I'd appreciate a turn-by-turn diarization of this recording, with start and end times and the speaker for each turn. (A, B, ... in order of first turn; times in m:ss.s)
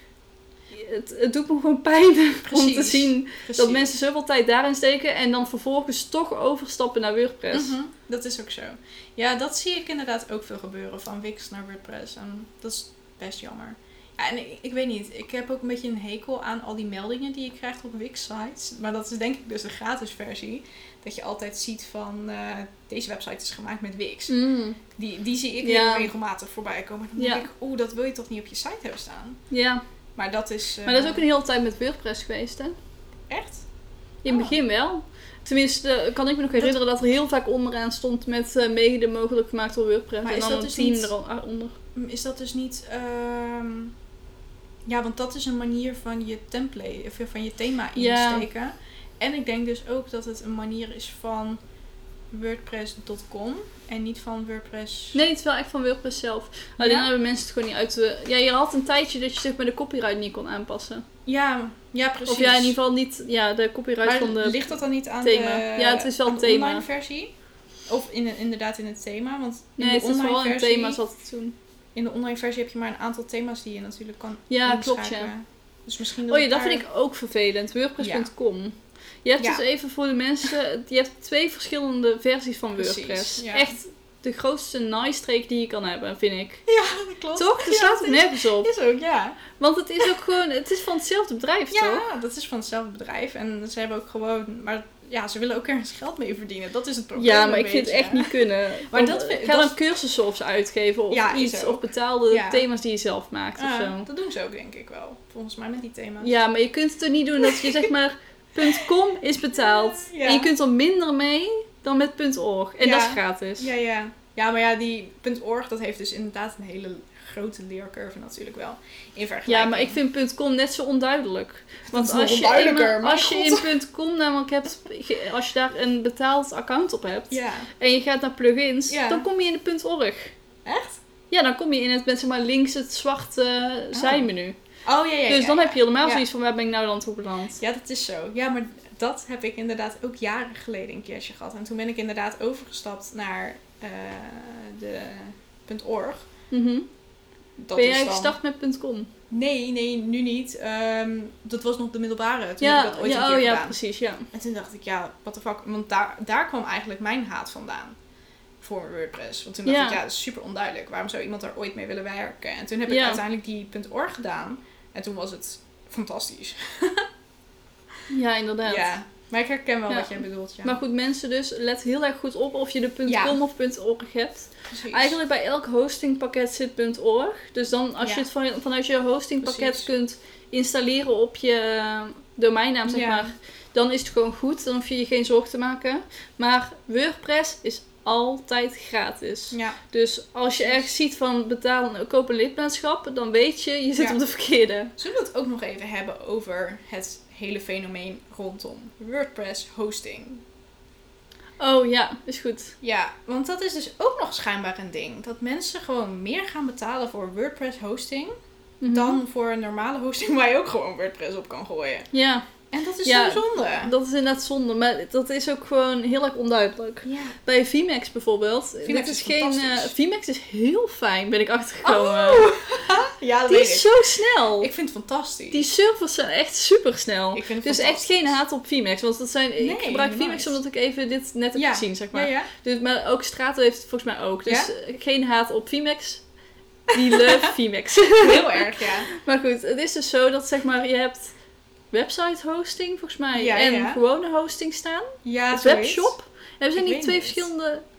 0:00.7-0:07.8 A
0:02.4-0:03.9 B
0:07.5-0:24.4 B
0:24.3-0:24.8 A
0:24.9-0:29.4 B
0:25.6-0:26.1 A
0:27.2-0:27.4 A
0:29.5-0:29.8 A
0:30.2-0:31.2 B
0:30.8-0:32.7 A
0:33.3-0:33.6 B
0:34.2-0:41.8 A
0:34.2-0:34.6 B
0:40.2-0:41.1 B
0:41.9-0:43.9 B
0:44.8-0:51.6 B
0:48.0-0:48.5 A
0:52.3-0:55.2 B
0:55.1-1:01.0 A
0:56.8-0:57.1 B
1:01.2-1:02.8 B
1:02.2-1:06.8 A
1:04.0-1:07.3 B
1:07.9-1:11.0 B
1:09.8-1:11.6 A
1:11.9-1:16.8 B
1:14.5-1:15.3 A
1:16.3-1:26.6 A
1:18.0-1:18.3 B
1:19.4-1:19.6 B
1:22.8-1:23.7 B
1:26.7-1:29.4 B
1:27.4-1:28.7 A
1:29.5-1:32.0 A
1:31.7-1:38.3 B
1:37.2-1:44.0 A
1:38.9-1:39.7 B
1:41.1-1:42.6 B
1:43.6-1:46.3 B
1:46.2-1:53.7 A
1:49.5-1:50.5 B
1:52.8-2:00.0 B
1:59.5-2:10.4 A
2:01.9-2:03.7 B
2:07.3-2:07.7 B
2:08.9-2:09.2 B
2:10.6-2:11.0 B
2:11.3-2:14.6 A
2:13.9-2:14.3 B
2:14.8-2:16.2 B
2:15.3-2:17.6 A
2:17.6-2:26.3 B
2:26.5-2:26.9 A
2:27.6-2:28.4 B
2:27.7-2:29.1 A
2:29.3-2:33.7 B
2:32.6-2:34.3 A
2:34.3-2:38.0 B
2:38.6-2:47.0 B
2:39.6-2:40.0 A
2:42.9-2:43.2 A
2:48.1-2:48.9 A
2:48.6-2:50.8 B
2:49.9-3:14.9 A
2:53.0-2:53.4 B
2:54.7-2:55.2 B
2:58.0-2:58.2 B
2:59.4-2:59.9 B
3:02.9-3:03.3 B
3:09.5-3:09.8 B
3:10.6-3:10.9 B
3:15.0-3:20.4 B
3:21.6-3:22.7 A
3:22.8-3:28.3 B
3:28.8-3:29.2 A
3:28.8-3:32.1 B
3:32.1-3:32.5 A
3:32.7-3:33.9 B
3:33.0-3:42.5 A
3:37.0-3:37.4 B
3:38.8-3:39.9 B
3:41.8-3:43.9 B
3:43.5-3:44.7 A
3:44.6-3:45.7 B
3:45.5-3:56.3 A
3:47.3-3:48.4 B
3:49.6-3:50.6 B
3:51.5-3:52.5 B
3:56.9-4:01.3 A
3:56.9-3:57.5 B
3:58.2-3:59.1 B
4:01.9-4:07.8 A
4:03.3-4:04.0 B
4:05.2-4:06.2 B
4:06.7-4:07.5 B